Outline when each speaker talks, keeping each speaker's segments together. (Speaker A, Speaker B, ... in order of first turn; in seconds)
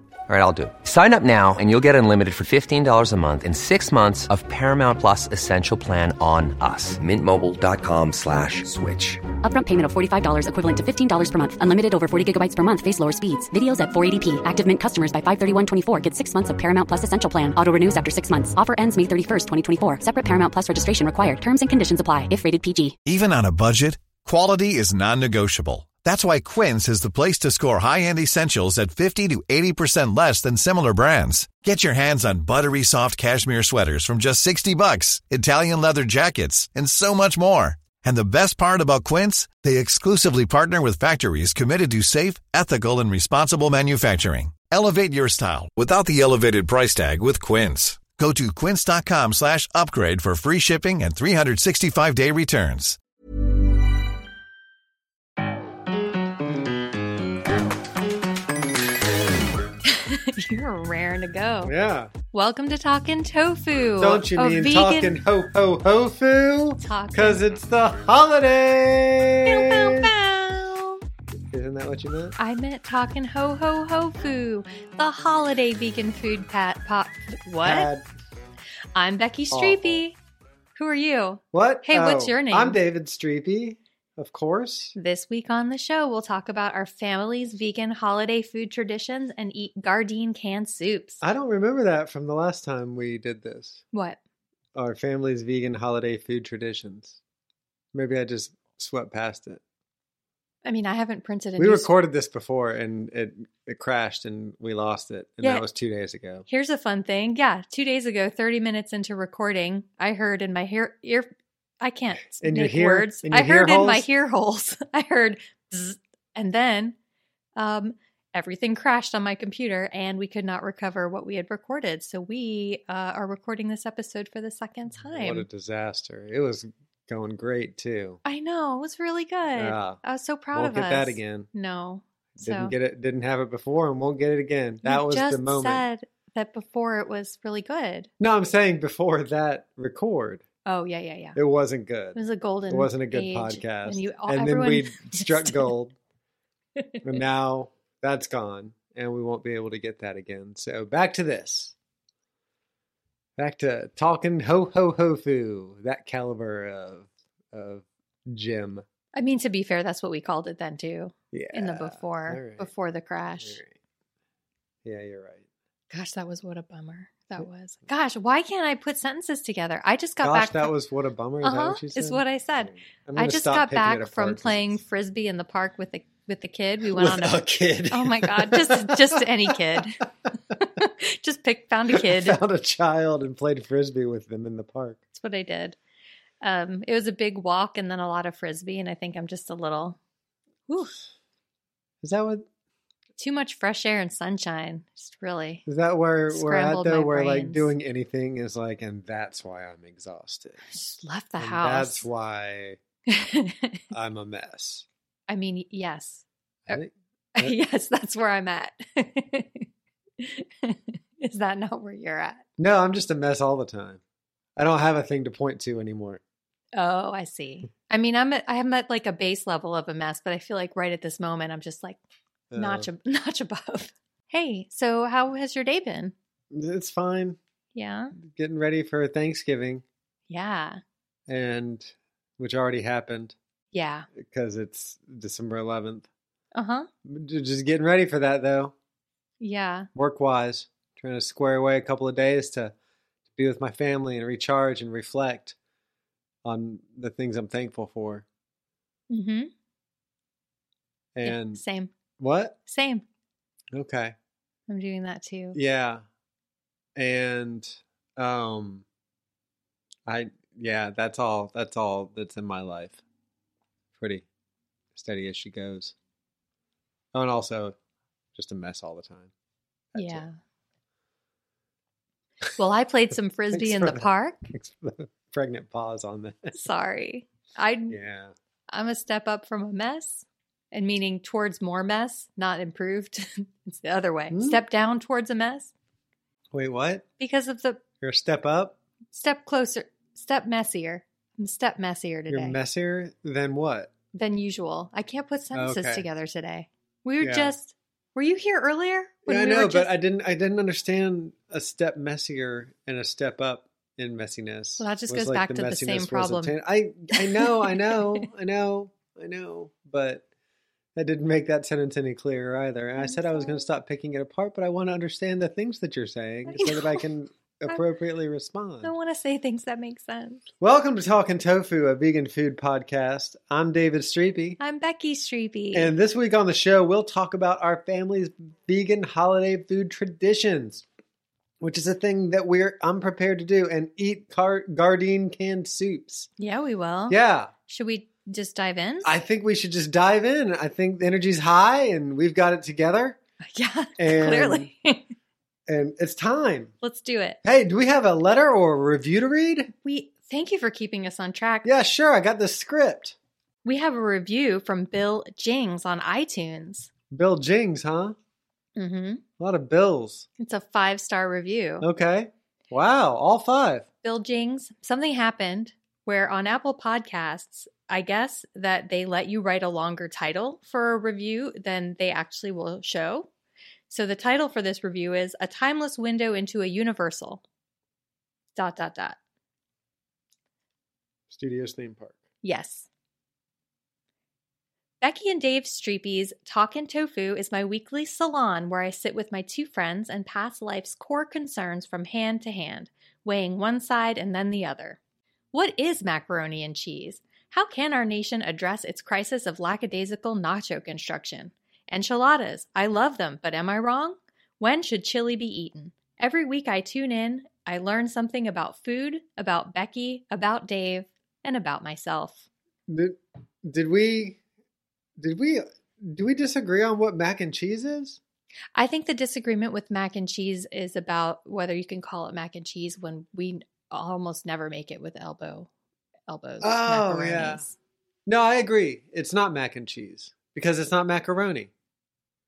Speaker A: 0.3-9.2
Speaker B: 9.4-22.9
Speaker C: 23.1-53.0
Speaker D: 59.8-61.7, 62.3-65.2, 66.8-67.4, 69.4-71.0, 72.4-77.9, 78.9-80.2, 80.8-82.8, 84.9-91.2, 93.9-94.2, 100.6-101.9, 106.5-111.3, 111.8-117.0, 117.5-125.5, 128.2-132.7, 134.8-138.1, 140.7-141.4, 142.1-145.7, 146.9-147.2, 159.1-163.6, 165.9-170.7, 171.4-182.4, 185.1-185.8, 186.4-190.0, 190.7-190.9, 193.2-195.6, 196.3-197.7, 200.7-202.1, 203.1-203.8, 205.3-206.8, 207.3-209.7, 210.2-212.4, 216.7-222.0, 222.5-226.1, 227.7-228.1, 230.3-230.8, 233.7-234.1, 236.5-236.9, 239.4-239.9, 249.1-249.5, 251.2-251.9, 252.7-253.0, 254.7-255.6, 269.9-270.3, 272.5-274.5, 276.5-278.0, 278.7-285.7, 287.2-287.8, 289.1-292.6, 294.1-299.9, 304.8-306.6, 307.1-308.3, 313.0-313.6, 316.5-317.0, 318.8-320.4, 324.6-325.9, 336.4-339.1, 343.4-345.1, 346.8-347.4, 349.8-351.7, 353.6-356.9, 358.8-359.2, 360.4-361.9, 364.0-373.3, 373.9-377.4, 378.5-379.2, 382.4-382.9, 385.0-395.0, 395.5-412.5, 418.7-425.7, 426.3-427.8
Speaker E: 61.6-62.1, 64.0-70.1, 71.5-72.4, 77.6-78.1, 79.5-80.0, 81.5-84.9, 91.2-93.8, 94.7-97.2, 97.9-99.6, 101.6-106.5, 112.4-114.1, 124.9-128.2, 129.6-130.0, 130.5-131.5, 132.3-135.8, 138.2-140.4, 141.3-145.9, 147.0-151.7, 153.4-158.8, 161.3-162.7, 163.4-163.7, 164.8-165.5, 170.2-174.8, 176.9-179.8, 181.9-185.0, 192.0-192.4, 195.7-200.6, 201.4-202.8, 203.9-204.8, 206.7-207.5, 212.6-214.0, 214.6-216.2, 222.5-222.9, 226.5-227.4, 228.2-229.8, 231.3-233.3, 234.1-236.1, 237.0-238.7, 239.9-242.7, 243.3-245.6, 246.4-248.2, 251.1-251.6, 252.2-252.6, 253.7-254.1, 255.5-256.0, 256.9-258.8, 260.1-263.0, 264.0-264.2, 264.9-265.9, 267.1-267.8, 268.3-269.3, 269.9-270.3, 273.5-276.6, 277.9-278.3, 284.3-284.6, 286.5-287.0, 288.0-288.8, 292.3-293.9, 295.5-296.1, 297.2-297.5, 299.3-310.2, 310.9-318.9, 320.6-324.6, 325.7-330.8, 331.6-336.3, 337.1-337.5, 339.0-343.2, 344.0-344.7, 345.7-346.7, 347.4-349.7, 351.6-353.1, 357.1-358.1, 359.4-360.3, 361.8-363.8, 381.3-382.2, 412.9-414.4, 415.2-418.2, 426.6-427.6, 428.2-431.7